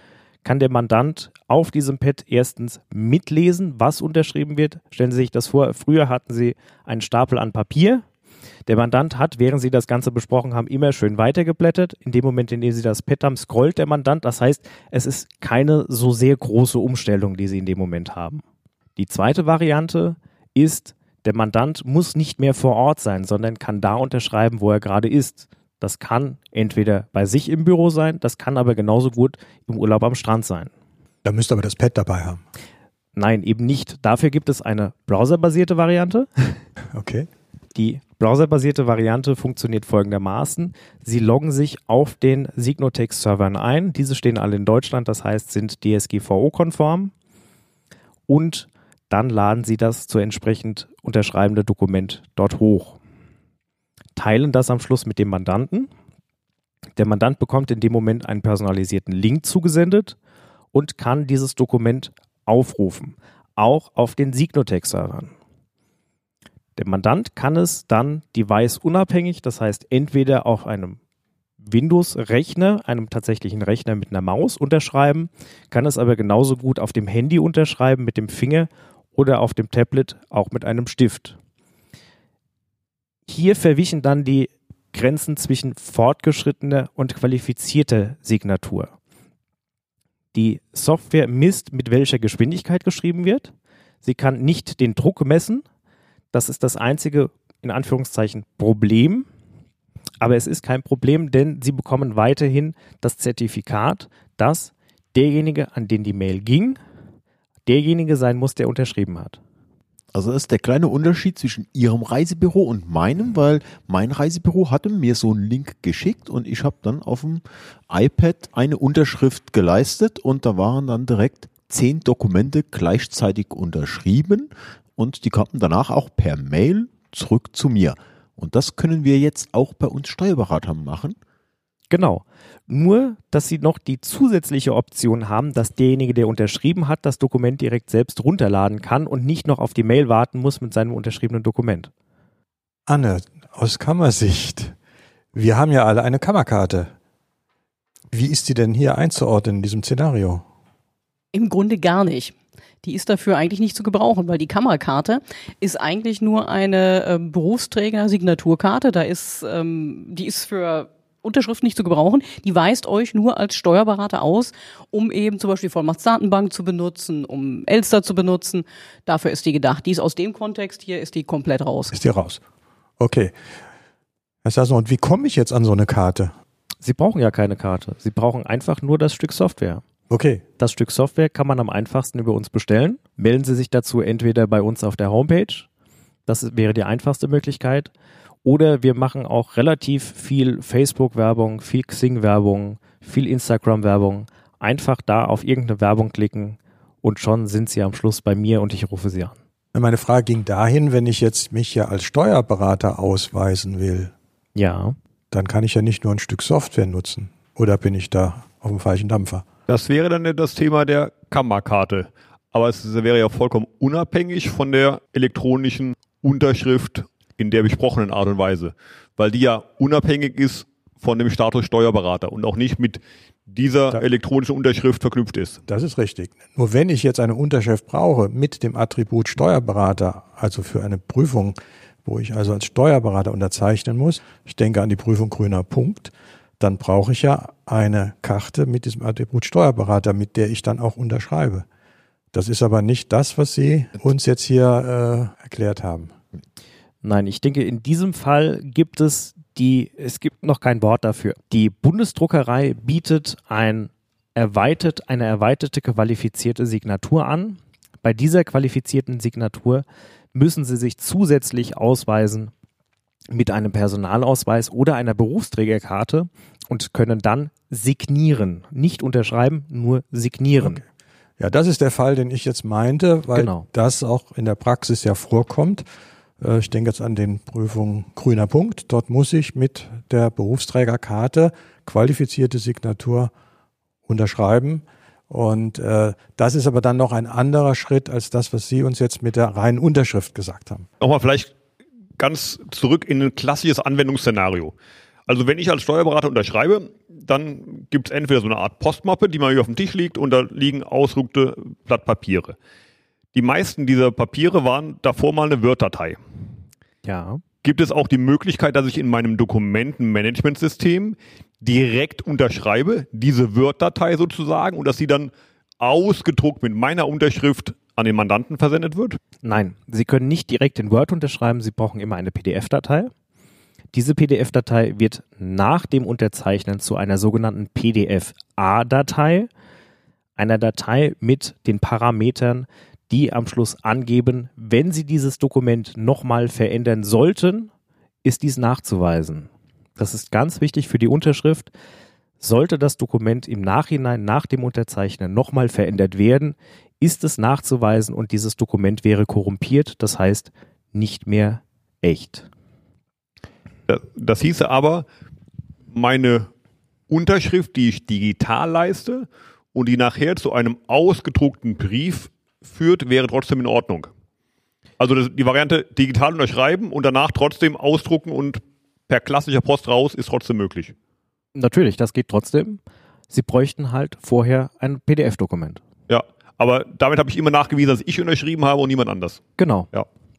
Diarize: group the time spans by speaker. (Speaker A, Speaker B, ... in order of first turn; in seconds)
Speaker A: 0.4-8.0, 8.7-18.4, 19.0-30.7, 33.1-36.6, 37.8-47.1, 48.3-53.0, 54.2-55.9, 57.0-60.2, 60.7-65.3, 66.8-71.0, 71.6-81.4, 83.2-88.9, 90.3-95.6, 96.3-99.3, 100.2-106.8, 107.7-109.4, 131.9-141.9, 176.8-179.8, 180.6-185.7, 186.3-187.9, 188.4-199.4, 204.6-204.9, 247.0-262.5, 263.3-270.8, 273.3-273.7, 307.0-307.4, 319.4-323.1, 323.9-329.5, 330.4-337.7, 338.2-341.7, 342.4-352.5, 371.6-372.8, 373.3-375.8, 379.6-379.9
Speaker B: 31.2-32.4, 36.9-37.3, 142.9-144.8, 145.3-146.9, 148.1-150.4, 171.9-172.4, 173.0-173.3, 174.4-176.3, 180.1-180.4, 199.7-204.1, 205.3-209.4, 225.7-241.7, 242.3-246.1, 271.4-275.8, 276.4-283.3, 284.1-290.9
Speaker C: 110.1-131.2
Speaker D: 151.3-171.9
Speaker E: 209.7-225.6, 291.0-291.5, 292.2-294.7, 295.3-302.6, 303.3-306.2, 307.6-319.2, 353.9-355.1, 355.9-356.5, 357.1-364.1, 365.0-370.9, 376.1-380.1